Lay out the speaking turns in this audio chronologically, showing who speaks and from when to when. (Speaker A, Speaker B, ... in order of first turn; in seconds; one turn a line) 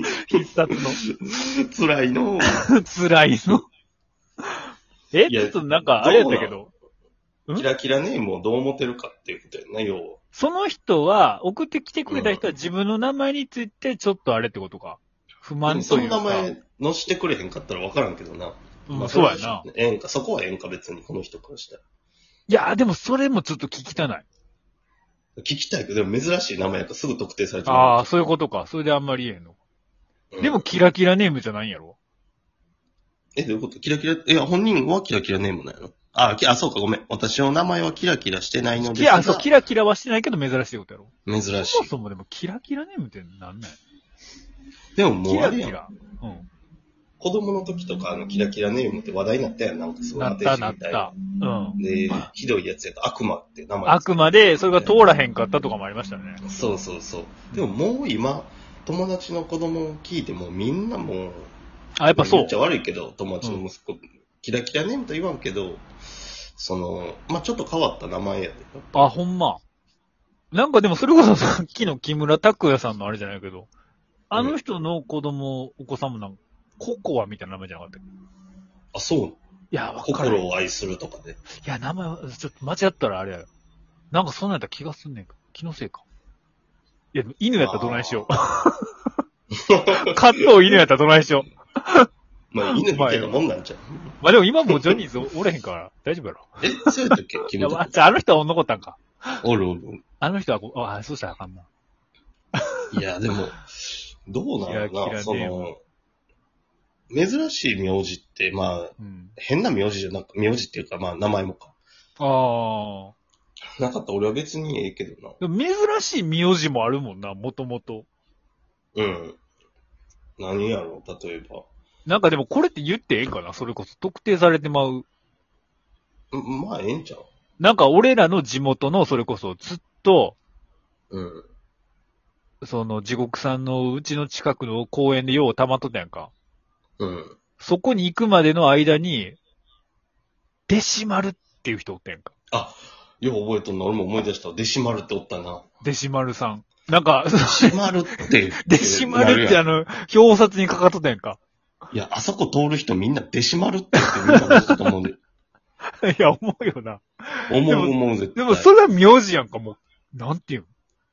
Speaker A: 0.2-1.0
Speaker B: 1.0-2.7
Speaker A: 2.5-3.7
Speaker A: 5.1-6.7
Speaker B: 5.3-6.6
Speaker B: 7.5-10.2
Speaker A: 10.3-16.5
Speaker B: 12.1-12.5
Speaker B: 15.7-21.8
Speaker A: 18.9-19.7
Speaker A: 22.5-24.2
Speaker B: 25.4-28.1
Speaker A: 27.7-29.6
Speaker B: 30.3-30.6
Speaker A: 30.4-32.0
Speaker B: 33.4-39.5
Speaker A: 38.8-43.8
Speaker B: 41.3-41.9
Speaker B: 45.0-45.8
Speaker A: 45.3-46.5
Speaker B: 47.2-51.1
Speaker A: 50.2-52.3
Speaker B: 51.8-55.0
Speaker A: 53.9-56.4
Speaker B: 56.4-61.5
Speaker A: 62.0-62.5
Speaker B: 62.1-65.9
Speaker B: 66.6-69.1
Speaker A: 68.9-69.6
Speaker A: 70.5-73.7
Speaker A: 74.3-78.0
Speaker B: 78.9-79.4
Speaker A: 79.7-80.5
Speaker B: 80.0-81.4
Speaker A: 81.6-83.5
Speaker A: 84.1-86.0
Speaker A: 87.1-88.8
Speaker B: 87.6-88.3
Speaker B: 89.7-90.0
Speaker A: 90.0-92.1
Speaker B: 92.5-94.1
Speaker A: 92.7-93.4
Speaker A: 94.2-96.5
Speaker B: 96.6-98.0
Speaker A: 97.5-99.4
Speaker B: 99.4-100.0
Speaker A: 100.2-101.7
Speaker B: 102.9-105.8
Speaker A: 104.6-105.7
Speaker B: 107.1-111.8
Speaker A: 109.0-109.3
Speaker A: 112.2-113.1
Speaker B: 113.8-115.4
Speaker A: 115.4-118.1
Speaker B: 119.0-119.4
Speaker B: 120.4-121.7
Speaker A: 122.1-125.1
Speaker B: 126.3-127.3
Speaker A: 127.6-130.4
Speaker B: 131.1-131.5
Speaker A: 132.6-136.3
Speaker B: 137.0-137.4
Speaker A: 137.6-139.4
Speaker A: 140.7-142.3
Speaker B: 142.5-145.6
Speaker A: 145.8-151.4
Speaker B: 147.4-149.6
Speaker B: 151.9-155.2
Speaker A: 154.0-154.8
Speaker A: 156.0-160.7
Speaker B: 157.5-158.7